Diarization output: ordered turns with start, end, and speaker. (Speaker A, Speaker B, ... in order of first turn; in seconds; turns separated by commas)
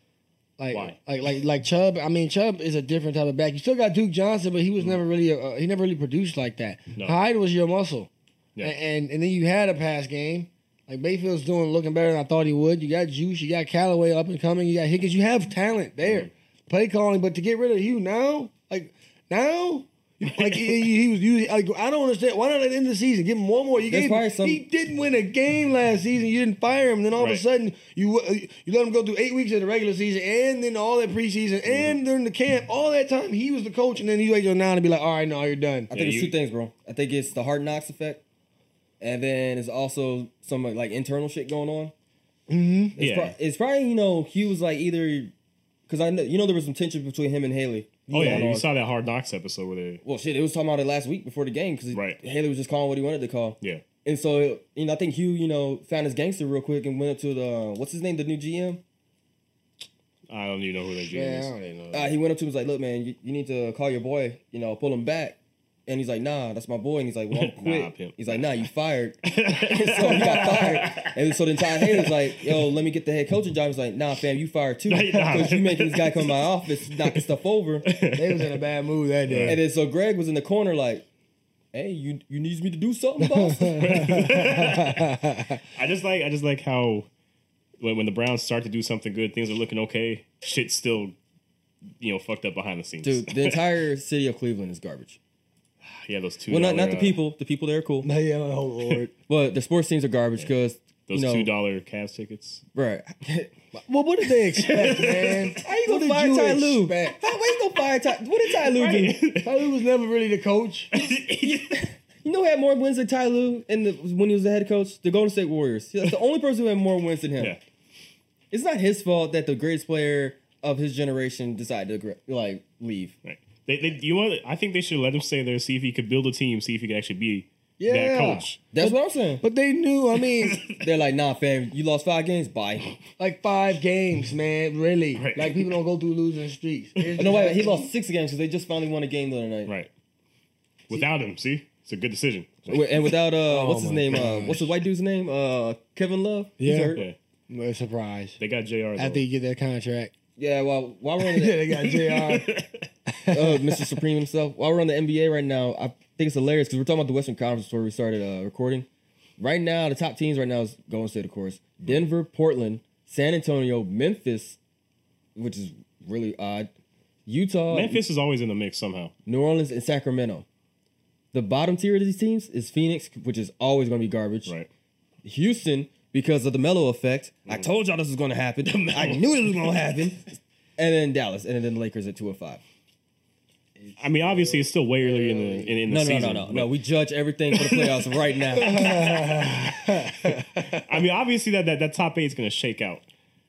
Speaker A: 0.6-8.1, Speaker A: 8.6-35.9, Speaker B: 23.9-24.6, Speaker C: 27.2-27.4, Speaker C: 35.9-36.4, Speaker B: 35.9-38.2, Speaker B: 39.0-41.9, Speaker A: 42.5-43.0, Speaker B: 42.9-45.3, Speaker C: 43.0-43.4, Speaker B: 45.9-48.7, Speaker A: 48.1-48.5, Speaker C: 48.1-50.0, Speaker B: 50.0-58.8, Speaker C: 51.9-52.2, Speaker C: 60.3-61.5, Speaker A: 61.1-62.1, Speaker B: 61.9-77.9, Speaker C: 67.3-68.4, Speaker C: 69.2-72.6, Speaker C: 74.9-77.3, Speaker C: 77.8-78.6, Speaker A: 78.1-79.6, Speaker C: 79.2-79.6, Speaker B: 79.4-81.0, Speaker B: 81.7-84.2, Speaker A: 83.2-85.6, Speaker C: 83.8-85.2, Speaker C: 85.7-87.1, Speaker C: 87.8-91.2, Speaker C: 92.0-93.6, Speaker B: 93.0-95.2, Speaker C: 95.9-97.2, Speaker B: 96.5-98.1, Speaker A: 98.0-99.1, Speaker B: 99.3-101.5, Speaker C: 101.1-102.6, Speaker B: 102.7-103.5, Speaker A: 103.7-107.2, Speaker C: 104.4-105.5, Speaker B: 105.5-109.2, Speaker C: 108.5-109.7, Speaker A: 109.4-110.9, Speaker C: 110.9-111.9, Speaker B: 112.2-117.5, Speaker B: 118.5-123.1, Speaker C: 123.2-128.6, Speaker A: 127.8-130.6, Speaker B: 128.7-129.4, Speaker C: 130.2-130.9, Speaker B: 130.7-132.9, Speaker A: 133.2-137.9, Speaker C: 135.2-135.8, Speaker C: 137.0-137.3, Speaker B: 137.2-139.7, Speaker C: 140.9-142.9, Speaker B: 142.7-147.1, Speaker A: 143.4-144.7, Speaker A: 146.6-148.4, Speaker C: 146.9-147.2, Speaker C: 148.4-149.2, Speaker A: 149.0-150.1, Speaker B: 150.4-151.7, Speaker A: 151.2-154.0, Speaker C: 151.9-152.8, Speaker B: 153.3-158.9, Speaker B: 159.4-164.6, Speaker B: 165.3-166.7, Speaker B: 167.2-168.0, Speaker C: 167.7-169.1, Speaker B: 169.2-170.4, Speaker B: 171.3-174.5, Speaker B: 175.2-182.6, Speaker C: 178.9-179.4, Speaker A: 183.8-185.7, Speaker C: 184.0-186.7, Speaker B: 185.9-189.2, Speaker C: 187.5-193.0, Speaker A: 188.5-190.8